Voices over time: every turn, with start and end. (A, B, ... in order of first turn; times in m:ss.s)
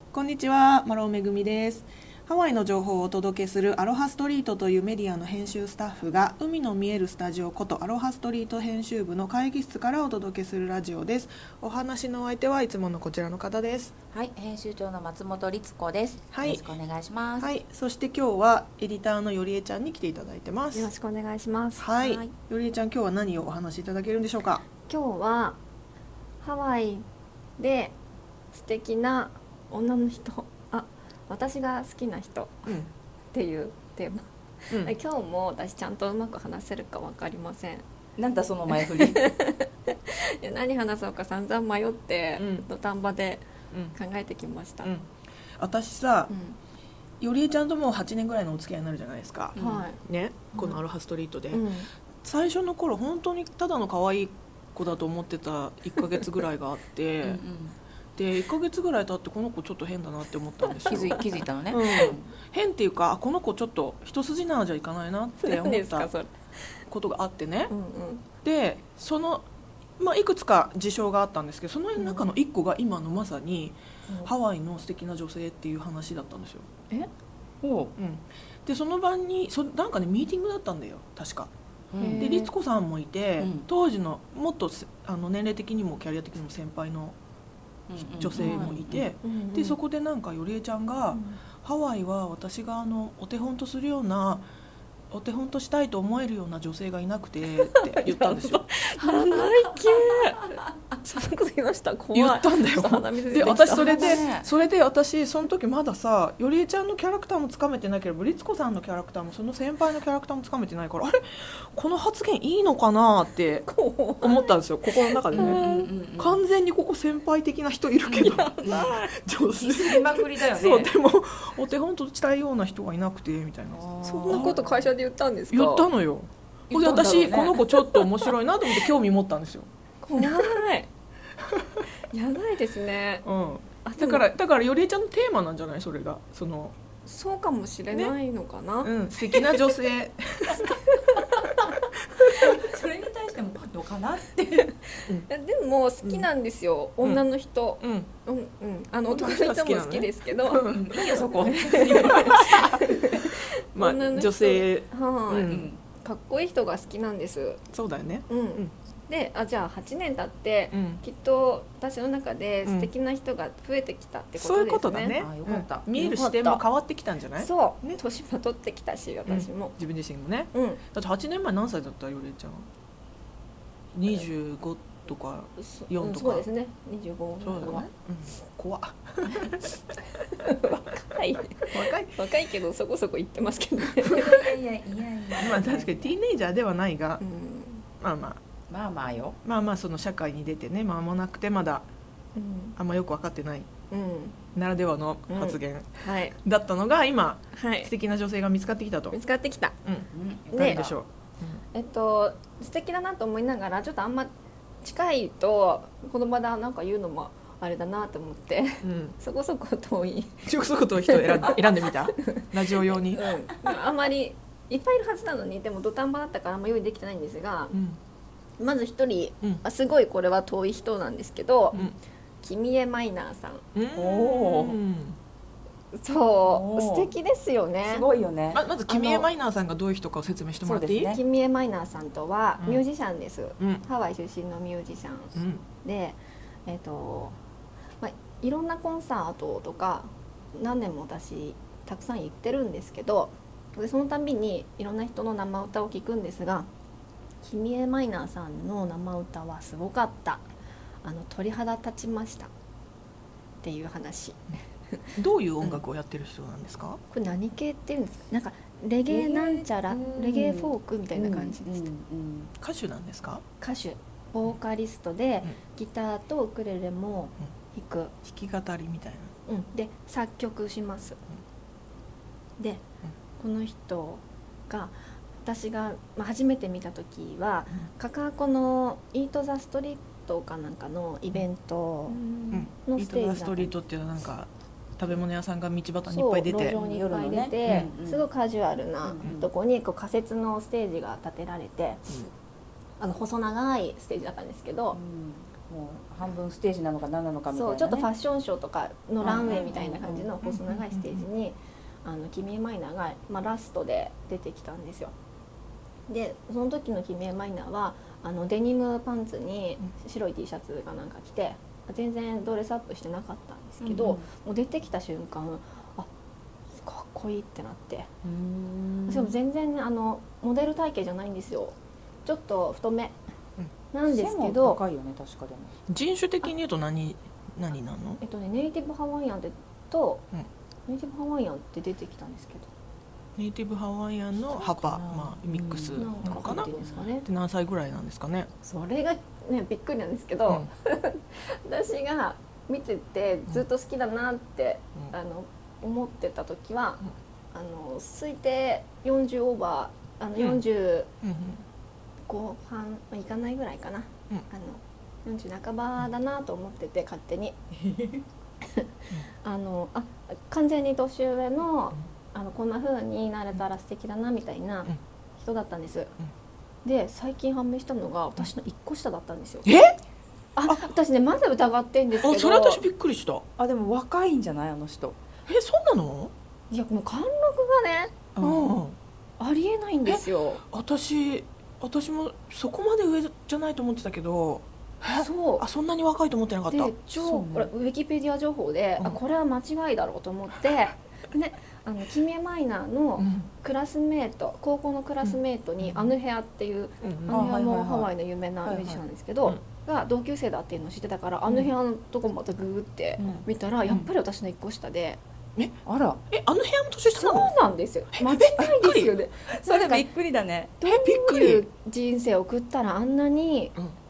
0:00.1-0:13.9 A
0:14.1-0:17.5 B
0:16.3-0:16.6 A
0:17.4-0:20.9 A
0:20.7-0:22.0 C
0:21.8-0:24.6 A
0:24.9-0:25.6 C
0:26.4-0:27.1 C
0:27.6-0:28.0 C
0:28.5-0:32.7 C
0:33.3-0:37.8 C
0:34.7-0:35.0 A
0:38.2-0:39.3 B
0:39.0-0:44.9 C
0:42.4-0:42.7 A
0:44.8-0:46.3 A
0:46.3-0:46.6 C
0:47.2-0:51.7 A
0:49.6-0:49.9 B
0:49.6-0:50.0 C
0:51.5-0:51.9 C
0:52.2-0:57.4 A
0:57.2-0:57.8 B
0:58.2-1:06.1 A
1:00.8-1:01.2 C
1:00.8-1:02.2 B
1:01.8-1:02.1 C
1:05.4-1:06.8 C
1:06.9-1:07.7 A
1:07.7-1:08.3 C
1:08.4-1:09.5 A
1:10.0-1:16.7 A
1:12.0-1:12.3 C
1:17.6-1:17.9 B
1:18.0-1:21.5 A
1:21.9-1:22.5 B
1:22.0-1:22.5 C
1:22.2-1:27.2 A
1:23.4-1:23.7 B
1:27.9-1:29.1 B
1:28.0-1:34.5 A
1:28.4-1:29.8 C
1:31.1-1:31.4 C
1:35.1-1:38.7 A
1:37.7-1:44.3 C
1:39.0-1:39.5 B
1:42.1-1:53.7 A
1:43.4-1:44.5 B
1:53.7-1:55.9 C
1:54.2-1:55.6 A
1:55.3-1:56.4 B
1:56.2-2:04.5 A
1:58.0-1:58.9 B
1:58.2-1:59.1 C
1:59.5-2:01.0 B
2:03.7-2:04.9 B
2:04.3-2:05.9 C
2:05.5-2:09.7 A
2:06.7-2:07.6 B
2:10.0-2:10.9 C
2:12.1-2:13.3 C
2:13.2-2:16.7 A
2:13.8-2:14.2 C
2:17.0-2:19.6 C
2:18.8-2:20.8 A
2:20.5-2:21.5 C
2:22.3-2:24.8 B
2:25.2-2:30.7 C
2:26.0-2:26.3 A
2:27.8-2:28.1 A
2:29.1-2:35.7 A
2:30.7-2:32.8 B
2:31.6-2:37.6 C
2:35.5-2:35.8 B
2:37.7-2:38.7 A
2:38.3-2:45.2 C
2:40.7-2:41.0 A
2:42.6-2:42.9 A
2:44.4-2:48.0 A
2:45.1-2:45.9 B
2:45.9-2:46.6 C
2:47.4-2:49.8 C
2:49.3-2:52.7 A
2:50.5-2:50.8 C
2:53.9-2:56.5 A
2:55.6-2:57.9 C
2:57.4-2:59.8 A
3:00.4-3:04.5 C
3:01.6-3:02.2 A
3:04.0-3:06.2 B
3:05.4-3:07.2 A
3:07.2-3:07.8 C
3:08.0-3:08.4 A
3:08.7-3:09.4 B
3:09.4-3:11.9 A
3:12.4-3:12.8 C
3:12.8-3:13.7 A
3:13.9-3:14.4 C
3:14.6-3:19.2 A
3:15.3-3:16.4 C
3:17.5-3:17.9 C
3:19.1-3:19.8 C
3:19.8-3:21.6 A
3:20.1-3:20.9 B
3:20.5-3:20.9 C
3:21.7-3:30.5 C
3:28.8-3:29.2 A
3:30.4-3:33.2 A
3:31.0-3:37.8 C
3:37.7-3:38.0 A
3:38.6-3:41.9 C
3:41.7-3:42.0 A
3:42.4-3:43.7 C
3:43.7-3:45.2 A
3:44.0-3:44.8 B
3:45.9-3:48.1 C
3:46.4-3:47.2 B
3:47.8-3:48.6 B
3:48.5-3:51.2 A
3:48.9-3:49.3 C
3:50.6-3:51.2 B
3:51.1-3:57.4 C
3:53.6-3:53.8 A
3:55.3-3:55.6 A
3:58.0-4:06.7 C
4:07.4-4:10.5 C
4:11.0-4:12.5 C
4:13.6-4:15.1 C
4:15.2-4:17.0 A
4:17.1-4:21.9 C
4:19.1-4:22.5 B
4:22.6-4:23.4 A
4:23.6-4:28.2 C
4:28.2-4:29.3 A
4:29.5-4:31.2 C
4:32.6-4:32.8 C
4:33.4-4:42.2 C
4:42.1-4:42.7 B
4:42.5-4:46.8 A
4:42.8-4:43.7 C
4:46.1-4:52.2 C
4:46.7-4:48.3 B
4:49.0-4:49.5 B
4:53.0-4:55.0 C
4:54.9-4:58.1 B
4:57.5-5:05.1 C
4:59.2-5:00.3 B
5:00.4-5:01.3 A
5:06.1-5:16.1 C
5:13.8-5:14.3 B
5:16.8-5:18.1 C
5:18.2-5:19.4 B
5:19.1-5:23.2 C
5:23.9-5:24.8 C
5:24.1-5:25.7 B
5:25.9-5:28.2 A
5:28.2-5:30.2 C
5:30.9-5:32.7 C
5:33.4-5:38.5 A
5:34.5-5:37.0 B
5:35.9-5:37.3 C
5:38.6-5:51.1 C
5:51.2-5:51.6 A
5:52.3-5:57.6 C
5:57.9-5:58.2 B
5:59.4-6:06.2 C
6:06.8-6:09.7 C
6:09.6-6:10.0 A
6:10.6-6:12.9 C
6:12.2-6:13.4 A
6:13.6-6:15.2 B
6:15.5-6:16.3 A
6:16.7-6:18.2 C
6:18.4-6:19.0 A
6:19.4-6:20.6 C
6:20.0-6:26.9 A
6:25.1-6:25.7 C
6:26.7-6:45.2 C
6:27.2-6:27.7 B
6:33.2-6:33.5 A
6:35.2-6:36.1 A
6:37.0-6:37.5 A
6:37.3-6:38.1 B
6:38.6-6:39.0 B
6:43.2-6:44.1 B
6:45.9-6:46.2 B
6:46.3-6:47.5 A
6:47.1-6:50.1 C
6:48.1-6:49.1 A
6:48.6-6:50.7 B
6:50.8-6:53.8 C
6:50.8-6:51.7 A